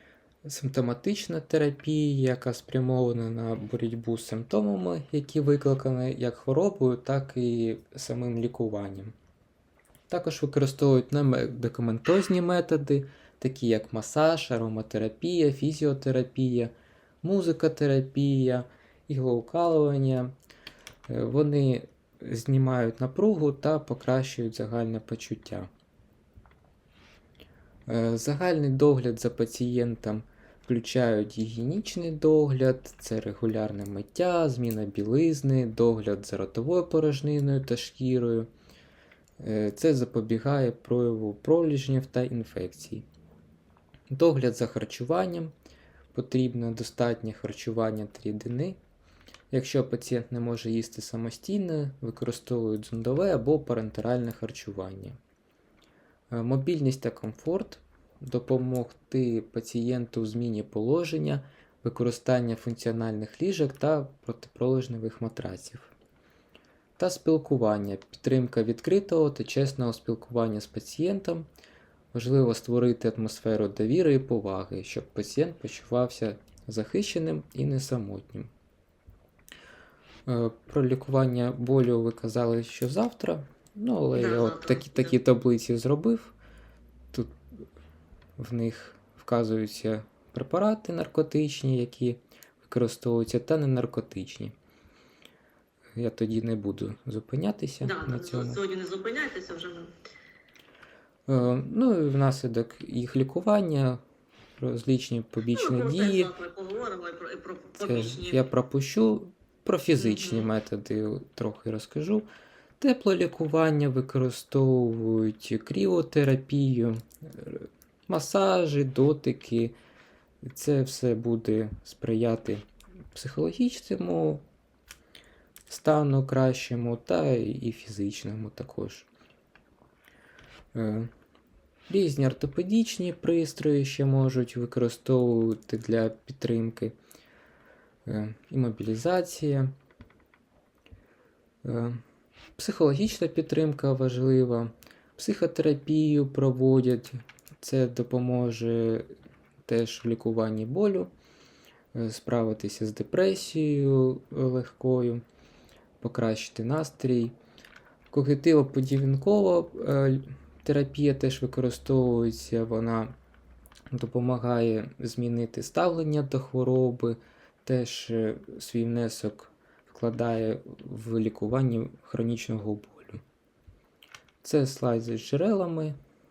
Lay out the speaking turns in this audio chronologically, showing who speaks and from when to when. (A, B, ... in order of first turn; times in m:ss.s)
0:00.4-0:09.2 A
0:10.1-0:16.7 A
0:17.2-0:20.3 A
0:21.1-0:25.7 A
0:27.9-0:38.5 A
0:39.4-0:43.1 A
0:44.1-0:45.5 A
0:46.1-0:48.8 A
0:49.5-0:55.2 A
0:56.3-1:05.9 A
1:07.0-1:11.5 A
1:12.1-1:18.5 A
1:20.2-1:26.4 A
1:24.2-1:25.2 B
1:27.1-1:27.4 A
1:28.4-1:34.6 A
1:36.0-1:38.6 A
1:37.8-1:39.9 B
1:41.3-1:44.0 A
1:44.6-1:46.3 A
1:45.6-1:48.4 B
1:47.8-1:52.3 A
1:50.0-1:50.5 B
1:52.8-1:59.8 A
2:00.4-2:04.4 A
2:05.7-2:09.1 A
2:10.7-2:11.1 A
2:11.9-2:16.9 A
2:18.1-2:19.7 A
2:21.6-2:22.0 A
2:22.6-2:29.1 A
2:29.6-2:31.1 A
2:31.9-2:35.2 A
2:36.0-2:37.4 A
2:38.1-2:43.2 A
2:43.9-2:53.2 A
2:54.4-2:55.9 A